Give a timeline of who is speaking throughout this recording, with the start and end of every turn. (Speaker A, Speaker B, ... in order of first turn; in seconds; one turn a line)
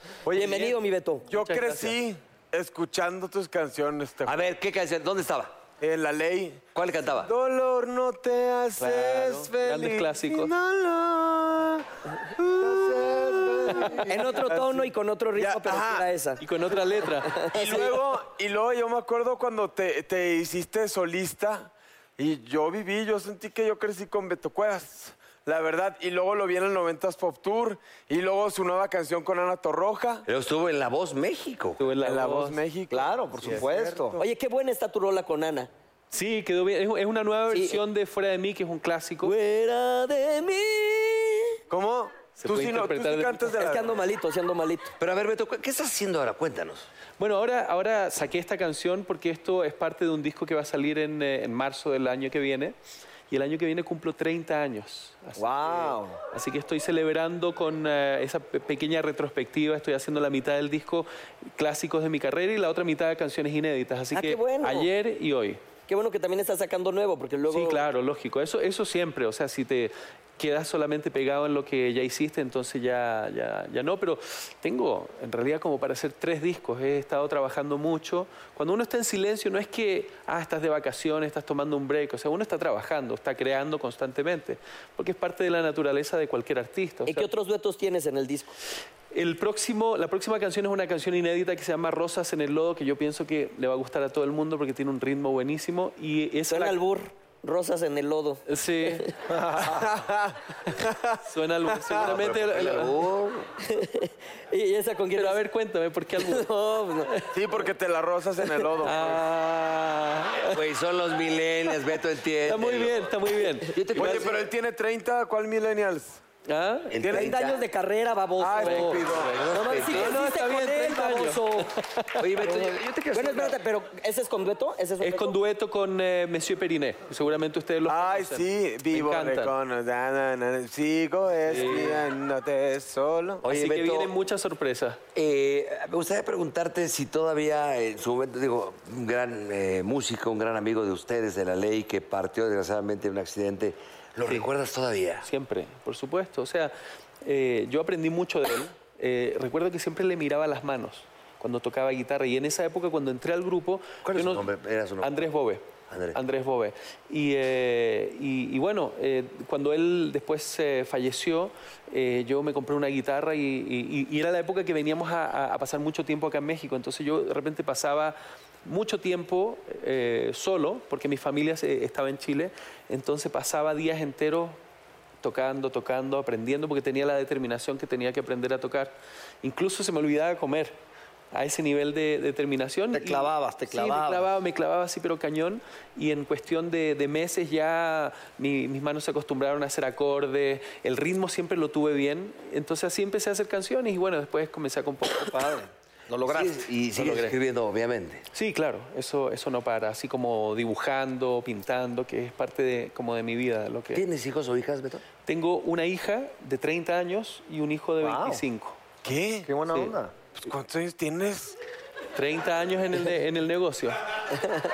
Speaker A: 0.3-0.7
Speaker B: 0.3-1.3
Speaker A: 1.3-4.4
Speaker C: 1.3-1.9
Speaker D: 4.2-5.6
Speaker A: 5.8-6.7
Speaker D: 6.7-7.3
Speaker A: 7.2-14.8
Speaker C: 8.8-10.5
Speaker E: 12.6-14.3
Speaker B: 14.0-16.4
Speaker A: 15.4-16.0
Speaker C: 16.4-17.4
Speaker B: 17.3-17.9
Speaker A: 17.5-30.2
Speaker D: 30.2-31.9
Speaker C: 31.8-32.6
Speaker A: 32.0-34.0
Speaker E: 32.9-34.2
Speaker B: 34.2-35.7
Speaker C: 36.1-39.3
Speaker B: 37.5-37.8
Speaker B: 39.2-41.6
Speaker A: 41.7-44.0
Speaker C: 42.4-43.6
Speaker B: 43.6-44.9
Speaker D: 45.0-46.9
Speaker C: 47.2-52.8
Speaker C: 53.3-65.6
Speaker E: 55.4-56.2
Speaker B: 64.1-64.9
Speaker B: 65.9-67.8
Speaker C: 67.5-87.3
Speaker B: 87.1-88.5
Speaker C: 89.1-96.8
Speaker B: 96.5-99.1
Speaker C: 98.5-99.1
Speaker E: 99.3-99.8
Speaker A: 99.6-101.2
Speaker C: 101.2-103.0
Speaker D: 102.0-103.5
Speaker B: 103.6-105.4
Speaker C: 105.1-106.5
Speaker B: 106.2-107.2
Speaker A: 107.3-109.2
Speaker C: 108.8-110.7
Speaker D: 110.4-113.1
Speaker C: 112.5-114.3
Speaker D: 113.7-114.4
Speaker A: 114.0-116.2
Speaker C: 116.5-117.0
Speaker D: 116.9-117.6
Speaker A: 117.0-117.3
Speaker B: 117.0-121.7
Speaker A: 118.4-119.4
Speaker C: 118.6-122.6
Speaker D: 119.3-120.1
Speaker D: 122.2-123.6
Speaker B: 123.1-125.3
Speaker C: 125.0-129.5
Speaker A: 127.9-133.4
Speaker C: 131.5-132.1
Speaker D: 133.4-134.1
Speaker C: 133.4-135.0
Speaker D: 135.1-145.3
Speaker C: 145.2-154.4
Speaker D: 154.0-155.3
Speaker C: 155.0-174.6
Speaker D: 155.9-156.2
Speaker C: 175.2-180.8
Speaker C: 181.3-195.4
Speaker E: 182.9-184.3
Speaker E: 195.2-196.7
Speaker D: 196.2-198.2
Speaker C: 196.9-197.4
Speaker C: 198.3-204.0
Speaker D: 203.9-205.0
Speaker C: 205.2-208.8
Speaker E: 208.0-208.4
Speaker A: 209.0-209.5
Speaker E: 209.4-210.1
Speaker A: 210.4-211.6
Speaker C: 212.2-214.0